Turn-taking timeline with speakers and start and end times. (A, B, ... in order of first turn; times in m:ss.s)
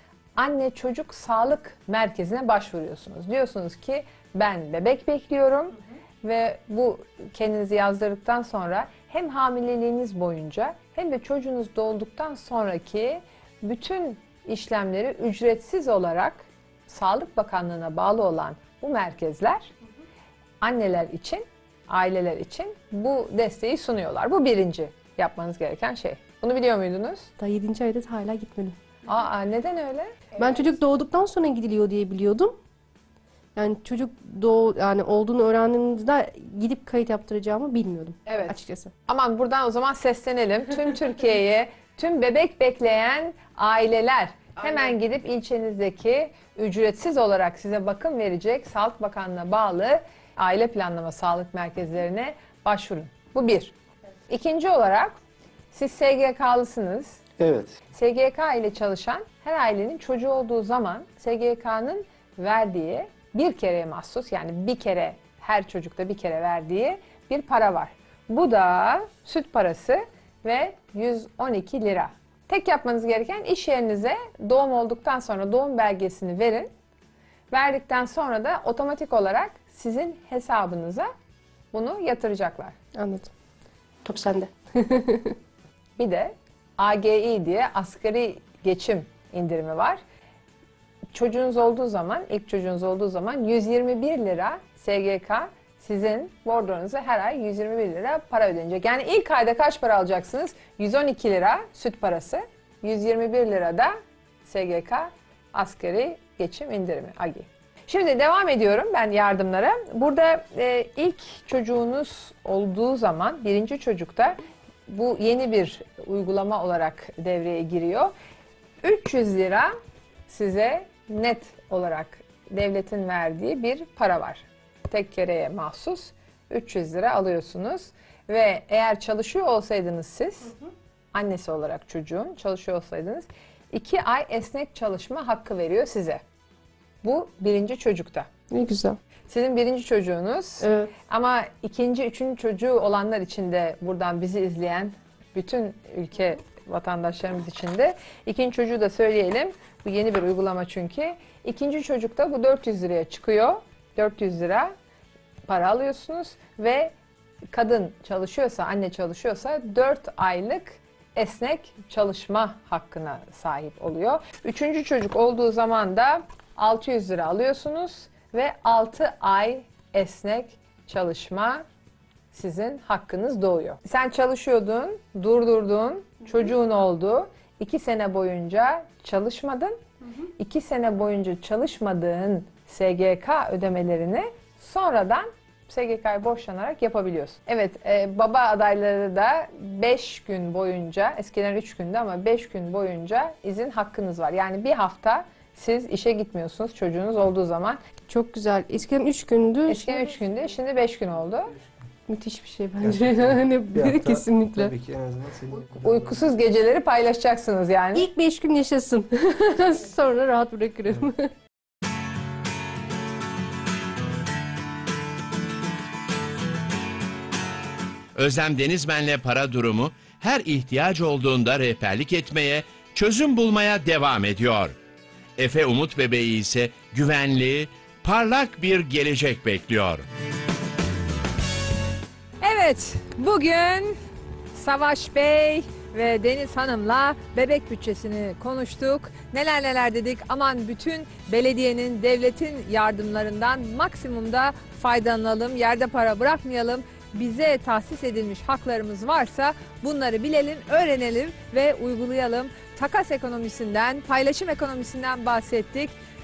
0:00.4-0:19.7 A
0:20.6-0:27.3 A
0:27.4-0:28.8 B
0:29.1-0:30.3 A
0:30.4-0:32.5 B
0:33.5-0:38.9 B
0:38.2-0:38.6 A
0:39.1-0:53.7 A
0:54.3-0:55.2 A
0:55.7-0:57.2 A
0:57.4-0:57.8 C
0:57.9-1:16.7 A
1:17.5-1:21.1 A
1:21.7-1:22.7 A
1:22.9-1:23.3 B
1:24.0-1:25.4 B
1:26.0-1:30.0 A
1:31.1-1:58.1 A
1:58.8-1:59.7 A
2:00.3-2:10.5 A
2:11.1-2:16.2 A
2:17.0-2:18.3 A
2:18.5-2:19.0 B
2:19.3-2:34.7 A
2:20.6-2:20.9 B
2:35.5-2:36.9 A
2:37.5-2:51.6 A
2:52.3-2:59.8 A
3:00.4-3:17.8 A
3:18.1-3:20.1 B
3:19.7-3:21.5 A
3:22.1-3:24.7 B
3:22.8-3:26.3 C
3:25.8-3:28.1 A
3:27.9-3:31.3 B
3:38.1-3:44.7 D
3:45.4-3:50.0 D
3:52.4-3:54.0 A
3:54.5-4:15.9 A